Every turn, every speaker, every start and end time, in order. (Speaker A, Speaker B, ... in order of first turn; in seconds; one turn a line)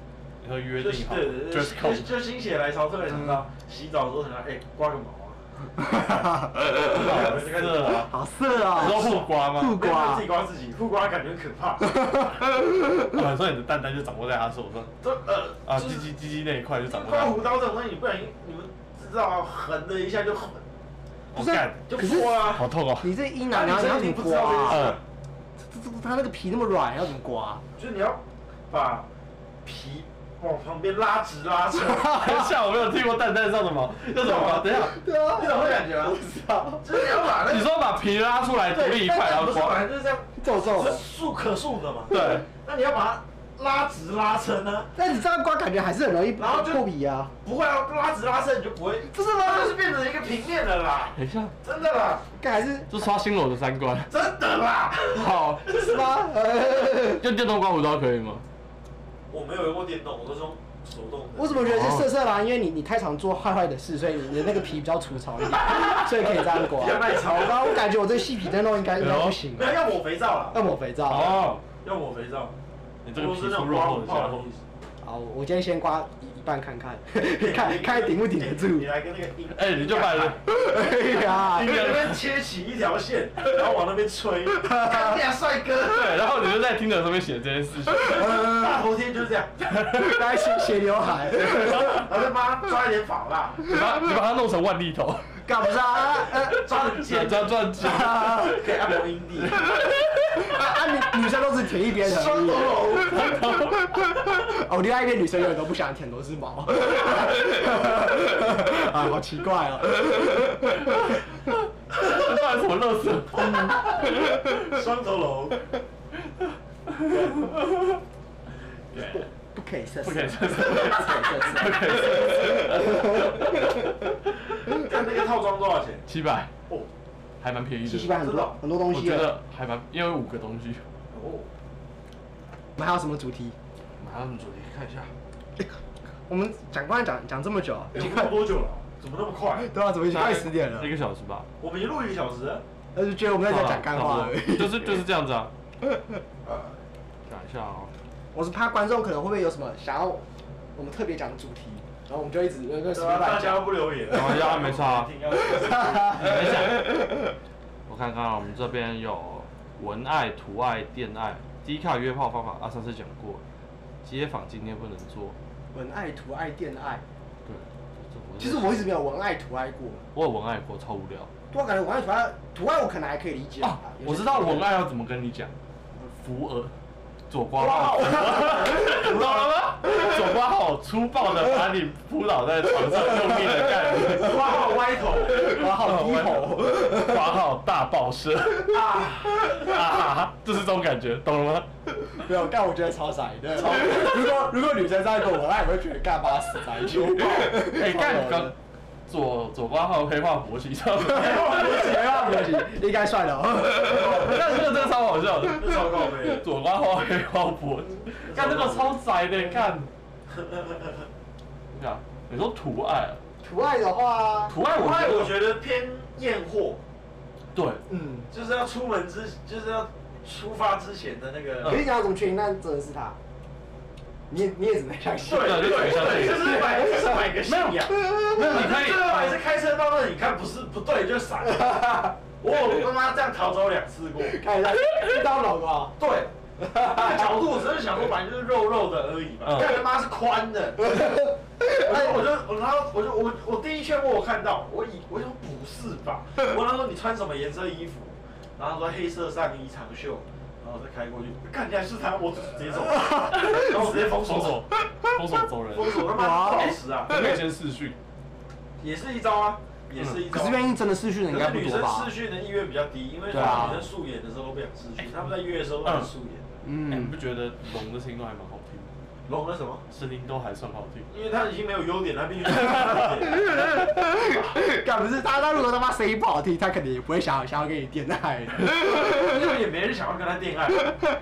Speaker A: 0.4-2.2
Speaker B: 0.8-5.4
Speaker C: 3.1-3.4
Speaker C: 5.8-6.7
Speaker A: 6.8-8.1
Speaker B: 6.9-8.1
Speaker C: 8.0-10.3
Speaker A: 8.6-9.8
Speaker B: 9.7-11.9
Speaker C: 11.9-13.0
Speaker A: 13.0-14.9
Speaker B: 15.0-16.1
Speaker A: 15.7-17.5
Speaker B: 16.9-20.6
Speaker A: 21.3-23.1
Speaker C: 21.4-24.9
Speaker B: 21.9-22.7
Speaker B: 23.5-25.0
Speaker A: 24.6-25.0
Speaker C: 25.6-27.6
Speaker B: 27.8-29.1
Speaker B: 29.6-32.1
Speaker C: 31.8-32.5
Speaker A: 32.0-35.0
Speaker B: 34.2-34.7
Speaker C: 34.7-36.9
Speaker B: 35.3-36.2
Speaker B: 36.8-37.7
Speaker A: 37.4-39.8
Speaker B: 38.7-44.9
Speaker C: 40.4-41.0
Speaker A: 42.1-42.5
Speaker C: 45.0-47.3
Speaker B: 46.4-46.9
Speaker B: 47.4-52.3
Speaker C: 49.1-49.8
Speaker A: 51.0-51.5
Speaker C: 52.4-52.9
Speaker A: 52.9-54.3
Speaker B: 54.1-55.3
Speaker A: 55.1-55.7
Speaker C: 55.7-57.3
Speaker A: 57.2-58.4
Speaker B: 59.3-61.9
Speaker C: 61.4-69.8
Speaker A: 61.6-62.1
Speaker B: 66.7-67.8
Speaker A: 69.0-69.4
Speaker B: 69.5-70.6
Speaker C: 70.5-71.5
Speaker A: 71.1-71.6
Speaker B: 71.2-72.5
Speaker A: 73.0-74.5
Speaker B: 73.2-74.6
Speaker C: 75.0-78.9
Speaker B: 77.3-86.2
Speaker A: 79.5-80.4
Speaker C: 80.4-82.0
Speaker A: 81.6-82.2
Speaker C: 84.6-85.2
Speaker A: 85.8-88.3
Speaker B: 88.1-89.7
Speaker C: 88.1-88.8
Speaker A: 89.8-90.4
Speaker C: 89.9-92.0
Speaker A: 91.5-91.9
Speaker B: 91.9-93.6
Speaker A: 93.6-95.4
Speaker C: 93.7-94.2
Speaker C: 95.4-96.6
Speaker A: 96.3-100.1
Speaker B: 96.5-99.6
Speaker C: 97.8-98.6
Speaker C: 100.4-111.2
Speaker B: 102.0-103.3
Speaker A: 102.9-104.1
Speaker A: 111.9-114.5
Speaker B: 114.6-115.7
Speaker A: 116.9-117.3
Speaker C: 119.1-124.0
Speaker A: 120.0-124.1
Speaker B: 124.7-126.0
Speaker A: 126.1-126.5
Speaker A: 127.4-128.3
Speaker C: 127.8-129.4
Speaker B: 128.2-128.6
Speaker A: 128.9-130.8
Speaker B: 131.1-131.5
Speaker C: 132.8-133.6
Speaker A: 134.0-135.1
Speaker C: 136.3-138.5
Speaker B: 137.9-139.7
Speaker C: 139.6-140.9
Speaker A: 140.1-141.5
Speaker B: 141.6-142.6
Speaker C: 142.9-145.0
Speaker A: 143.4-145.5
Speaker C: 145.9-146.2
Speaker A: 147.3-147.9
Speaker C: 148.3-154.5
Speaker B: 152.9-156.4
Speaker A: 154.0-155.1
Speaker C: 155.3-156.9
Speaker A: 156.0-157.1
Speaker A: 157.9-163.4
Speaker A: 164.0-165.4
Speaker C: 165.7-167.0
Speaker A: 167.5-168.9
Speaker C: 168.4-170.1
Speaker A: 170.1-171.3
Speaker C: 171.5-174.7
Speaker A: 173.6-176.7
Speaker A: 177.3-184.7
Speaker B: 177.6-179.5
Speaker B: 184.2-185.4
Speaker C: 185.3-187.4
Speaker A: 185.4-191.7
Speaker B: 188.7-189.5
Speaker C: 192.0-198.5
Speaker A: 197.0-198.6
Speaker A: 199.1-201.8
Speaker C: 201.0-204.7
Speaker B: 201.2-202.5
Speaker B: 203.8-206.4
Speaker A: 204.1-209.9
Speaker B: 208.2-209.0
Speaker B: 210.3-211.1
Speaker A: 211.7-213.2
Speaker C: 213.4-214.5
Speaker A: 214.5-215.5
Speaker B: 214.7-216.8
Speaker A: 217.5-217.8
Speaker C: 217.9-218.3
Speaker B: 218.3-221.8
Speaker C: 221.6-223.2
Speaker C: 224.3-227.3
Speaker B: 225.2-231.7
Speaker A: 225.3-226.9
Speaker A: 227.4-229.4
Speaker C: 227.9-228.7
Speaker C: 231.4-232.1
Speaker B: 232.4-234.4
Speaker C: 234.2-236.0
Speaker B: 236.0-236.3
Speaker C: 236.6-237.4
Speaker B: 236.8-241.1
Speaker A: 239.4-239.8
Speaker C: 240.8-242.2
Speaker B: 241.7-254.6
Speaker C: 252.9-253.7
Speaker A: 253.3-258.0
Speaker B: 255.7-257.3
Speaker C: 256.1-257.4
Speaker B: 258.8-260.7
Speaker A: 260.0-260.3
Speaker C: 260.3-262.1
Speaker B: 261.3-266.6
Speaker A: 263.3-263.9
Speaker C: 263.3-263.9
Speaker A: 265.8-266.1
Speaker C: 266.6-267.2
Speaker A: 266.9-268.9
Speaker B: 269.3-269.8
Speaker A: 269.9-271.1
Speaker B: 271.1-273.6
Speaker A: 272.5-273.1
Speaker C: 273.2-279.6
Speaker B: 278.9-280.9